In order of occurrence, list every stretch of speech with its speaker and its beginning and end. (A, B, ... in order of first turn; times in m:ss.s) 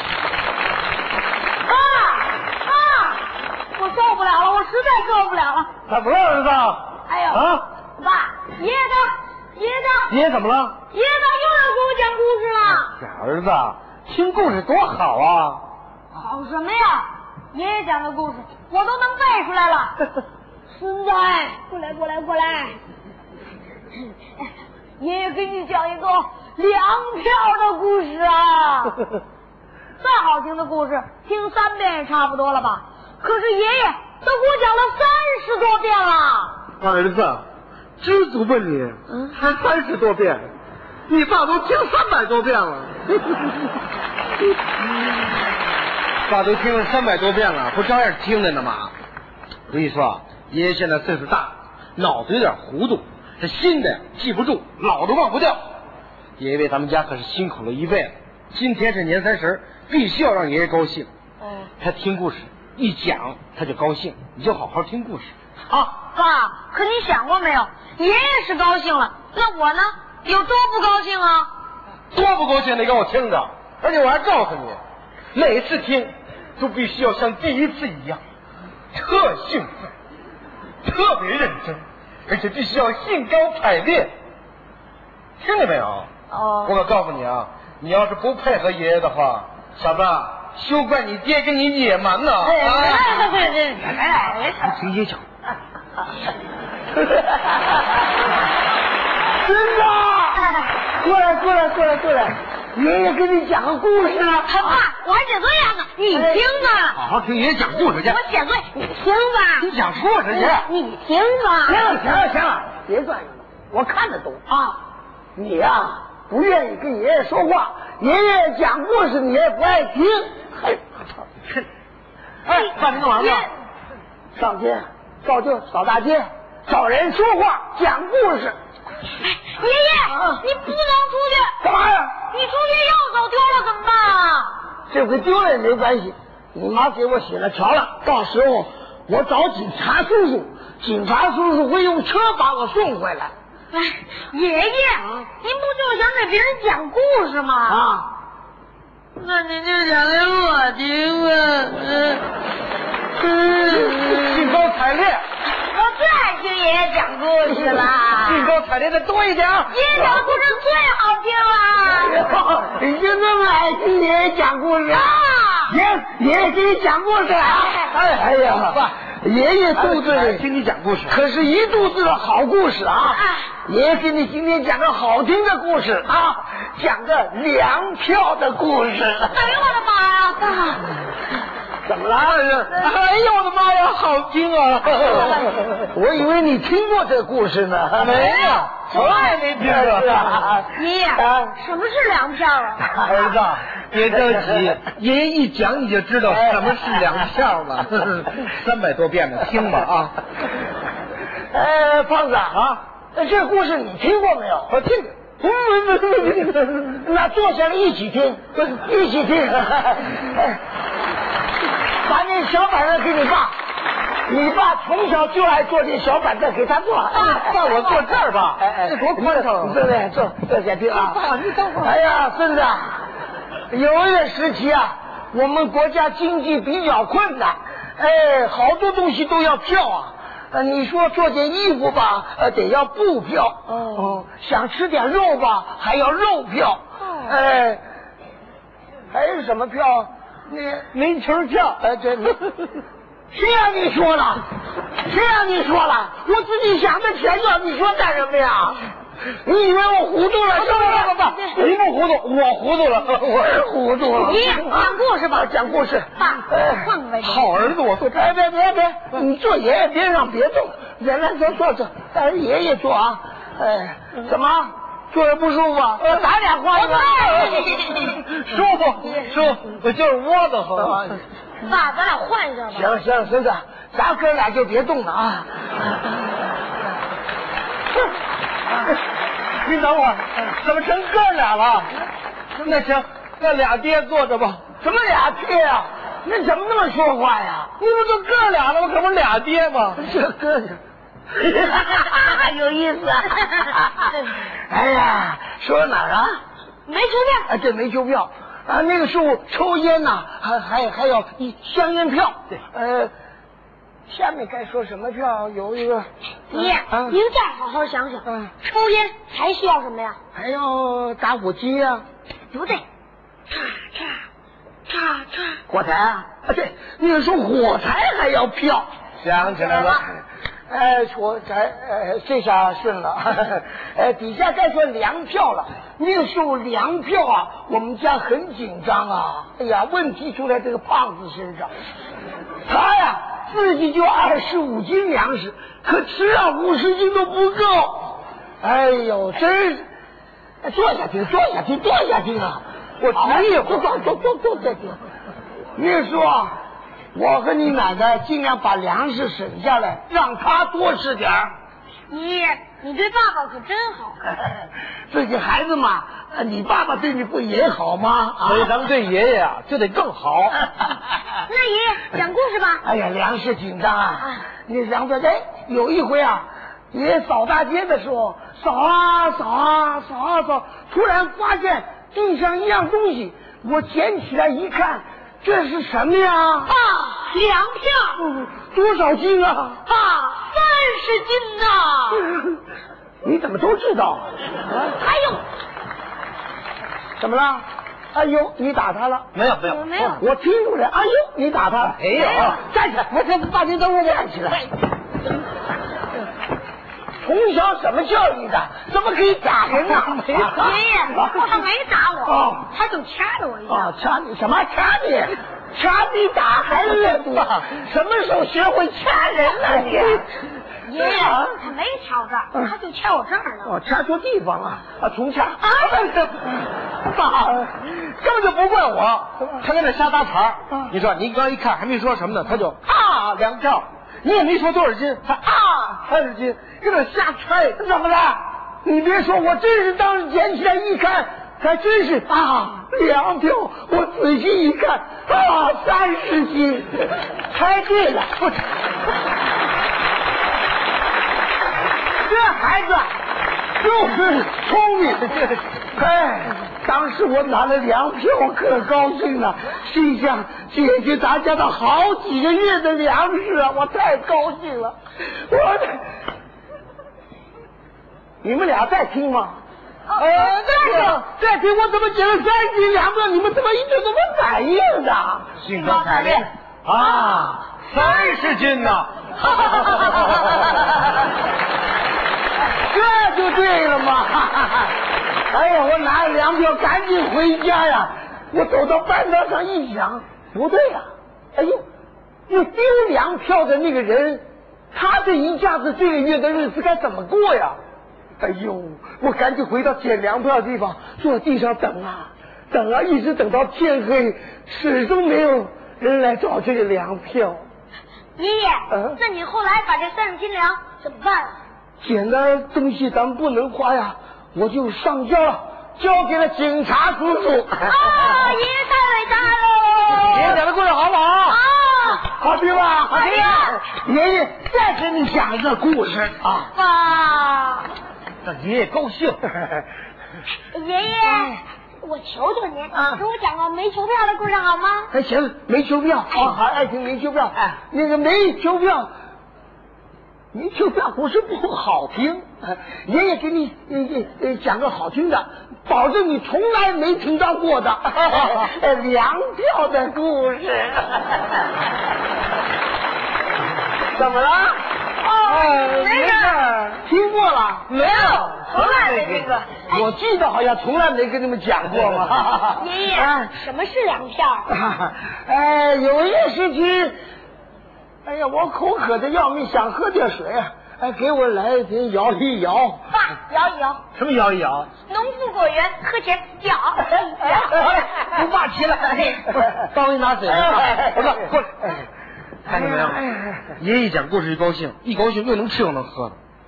0:01.6-0:05.7 A
0:05.9-0:07.6 B
0:07.1-0:10.2 A
0:10.1-0:10.8 B
0:10.9-0:13.0 A
0:12.9-0:15.6 B
0:16.1-0:20.0 A
0:20.7-0:22.8 A
0:24.0-0:24.4 A
0:25.0-0:29.0 A
0:30.0-0:36.6 A
0:36.8-0:37.4 B
0:38.0-0:40.5 B
0:41.1-0:43.4 B
0:46.3-0:48.9 B
0:49.7-0:55.6 B
0:56.4-1:01.1 B
1:01.4-1:01.7 A
1:01.8-1:05.7 B
1:05.7-1:11.5 A
1:12.1-1:14.8 B
1:15.3-1:18.2 B
1:18.9-1:19.9 B
1:20.8-1:24.1 B
1:25.4-1:26.1 B
1:26.3-1:26.7 A
1:26.6-1:33.2 B
1:32.4-1:34.8 A
1:34.6-1:35.2 B
1:39.4-1:44.8 C
1:40.3-1:40.8 A
1:44.4-1:47.0 A
1:46.1-1:46.4 C
1:46.9-1:48.2 B
1:47.8-1:49.7 A
1:49.6-1:50.7 B
1:50.3-1:51.9 A
1:51.6-1:54.7 C
1:55.4-2:00.8 C
2:02.4-2:03.5 B
2:02.5-2:03.5 A
2:04.3-2:08.6 C
2:09.1-2:11.6 A
2:10.1-2:10.4 C
2:11.6-2:12.2 C
2:12.2-2:14.6 A
2:14.9-2:23.3 C
2:23.7-2:27.9 A
2:27.7-2:28.1 C
2:29.2-2:32.2 A
2:33.2-2:34.4 A
2:33.6-2:35.2 B
2:35.5-2:38.5 A
2:38.2-2:40.2 B
2:39.7-2:42.3 A
2:41.8-2:50.4 C
2:44.9-2:45.8 A
2:47.9-2:48.9 B
2:49.7-2:51.2 B
2:51.1-2:59.5 C
2:53.0-2:53.6 A
2:59.3-3:01.0 A
3:01.8-3:02.8 C
3:02.7-3:05.5 B
3:05.0-3:05.4 A
3:05.0-3:08.2 C
3:07.9-3:10.6 B
3:08.1-3:09.5 A
3:09.6-3:11.5 C
3:10.7-3:13.4 A
3:13.0-3:20.2 B
3:21.5-3:22.6 C
3:22.5-3:22.8 B
3:23.1-3:24.8 C
3:24.7-3:26.8 B
3:26.8-3:30.6 C
3:32.0-3:33.5 C
3:34.2-3:37.6 C
3:37.1-3:39.8 B
3:37.1-3:38.1 A
3:38.8-3:41.2 C
3:40.9-3:42.0 B
3:41.7-3:43.1 C
3:43.7-3:57.8 C
3:53.7-3:54.2 A
3:57.0-3:57.3 A
3:59.1-4:00.9 C
4:00.9-4:01.8 B
4:01.8-4:02.5 C
4:03.3-4:04.4 C
4:05.0-4:11.2 C
4:10.6-4:11.6 A
4:10.9-4:13.5 B
4:13.2-4:16.9 C
4:14.2-4:17.7 A
4:17.2-4:18.1 B
4:18.0-4:27.5 C
4:26.7-4:27.8 A
4:27.6-4:31.2 B
4:30.8-4:31.2 C
4:31.6-4:33.0 A
4:32.7-4:35.5 C
4:39.6-4:41.9 B
4:42.6-4:44.6 B
4:44.8-4:47.7 C
4:47.8-4:50.1 B
4:50.0-4:50.8 C
4:51.3-4:56.4 C
4:56.8-4:57.5 A
4:57.5-5:03.1 C
5:04.1-5:07.2 C
5:06.5-5:10.2 A
5:08.2-5:08.5 C
5:10.3-5:12.0 C
5:12.5-5:12.8 A
5:13.5-5:14.2 A
5:14.8-5:15.6 A
5:15.7-5:18.9 C
5:19.2-5:20.0 B
5:19.4-5:20.0 A
5:20.7-5:31.7 C
5:32.6-5:39.9 C
5:40.6-5:45.0 C
5:43.0-5:43.9 B
5:45.7-5:46.5 C
5:47.1-5:51.5 C
5:52.1-5:54.2 A
5:54.2-5:58.7 C
5:58.4-6:00.7 B
6:01.4-6:02.8 A
6:02.8-6:16.7 C
6:04.2-6:04.5 A
6:16.6-6:18.2 A
6:18.2-6:19.8 C
6:19.8-6:22.3 A
6:23.2-6:24.3 C
6:24.7-6:25.4 A
6:27.2-6:29.3 C
6:29.3-6:30.2 B
6:29.6-6:30.2 A
6:30.1-6:34.7 C
6:32.0-6:32.6 B
6:32.2-6:32.6 A
6:37.2-6:41.5 C
6:39.9-6:40.6 B
6:40.3-6:43.9 A
6:42.2-6:42.7 C
6:43.7-6:50.3 C
6:50.8-6:53.8 A
6:50.9-6:51.6 C
6:53.6-6:56.1 C
6:55.6-6:56.2 A
6:57.2-6:57.6 C
6:57.6-7:08.4 B
7:08.8-7:18.3 C
7:22.3-7:23.1 C
7:23.8-7:36.1 C
7:38.4-7:39.6 C
7:40.1-7:41.0 A
7:40.2-7:41.2 B
7:40.8-7:45.5 C
7:45.6-7:50.6 B
7:45.8-7:46.5 A
7:47.0-7:47.7 C
7:47.9-7:48.3 A
7:49.4-7:50.6 A
7:52.8-7:55.0 C
7:55.5-8:01.8 C
8:02.5-8:07.8 C
8:08.4-8:17.6 C
8:18.4-8:21.6 A
8:18.9-8:19.2 C
8:22.0-8:28.4 C
8:27.8-8:30.6 A
8:30.1-8:31.6 B
8:31.4-8:32.4 A
8:32.3-8:36.7 C
8:33.1-8:33.8 A
8:36.7-8:37.9 A
8:38.4-8:39.4 B
8:40.7-8:45.1 A
8:42.9-8:43.2 C
8:45.1-8:49.1 C
8:46.3-8:46.6 A
8:50.5-9:01.4 C
9:04.1-9:04.8 C
9:05.2-9:06.7 A
9:05.5-9:06.8 B
9:06.9-9:07.9 C
9:07.9-9:09.5 B
9:07.9-9:10.2 A
9:09.9-9:13.5 C
9:12.6-9:14.7 A
9:14.7-9:17.2 C
9:18.2-9:23.0 C
9:23.1-9:24.0 A
9:24.1-9:24.9 B
9:25.1-9:28.3 A
9:27.7-9:32.1 B
9:30.5-9:31.4 C
9:32.6-9:36.4 B
9:32.8-9:33.6 C